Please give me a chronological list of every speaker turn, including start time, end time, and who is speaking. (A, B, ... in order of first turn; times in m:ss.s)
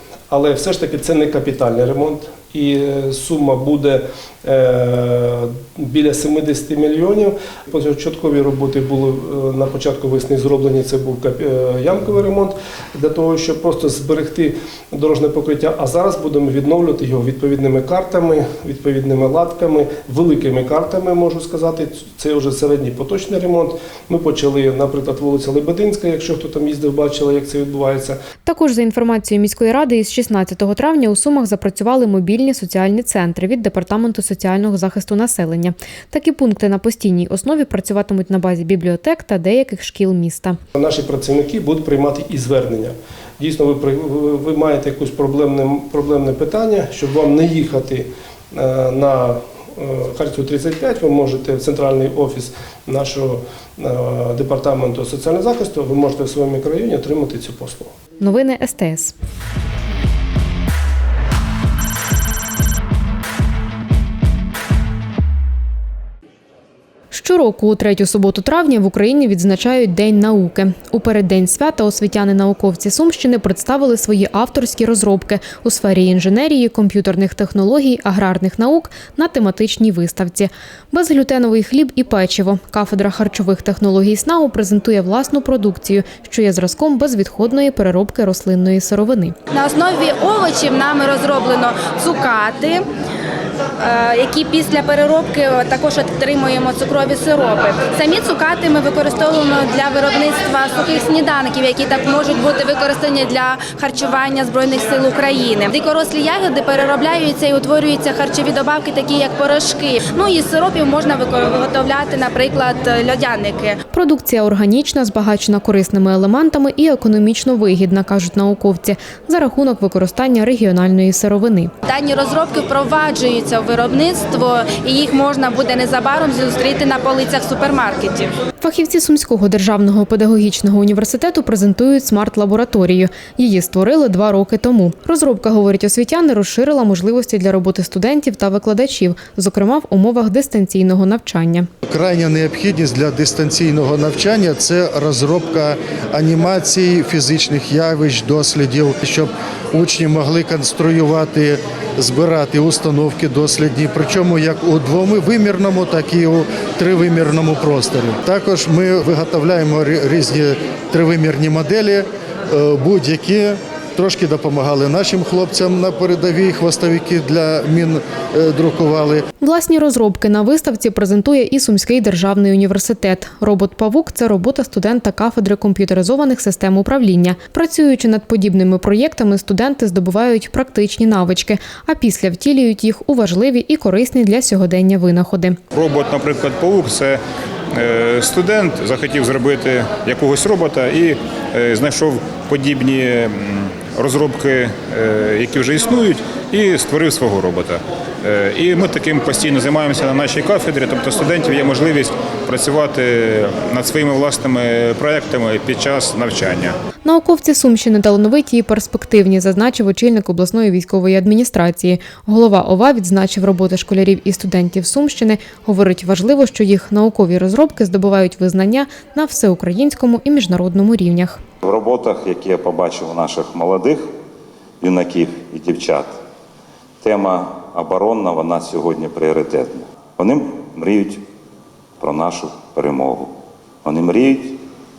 0:00.3-0:28.2 A
0:28.4-0:40.6 B
0:40.7-0:57.9 A
0:58.2-0:59.1 B
1:07.1-1:29.4 B
1:29.5-1:32.8 C
1:33.8-1:53.8 C
1:53.9-2:01.7 B
2:01.9-2:08.3 C
2:08.6-2:21.7 B
2:21.9-2:49.3 D
2:49.4-3:05.6 B
3:05.7-3:07.2 E
3:07.7-3:26.7 E
3:27.0-3:41.4 B
3:41.6-3:44.1 F
3:44.8-3:46.1 F
3:47.0-3:51.2 F
3:52.0-3:54.6 F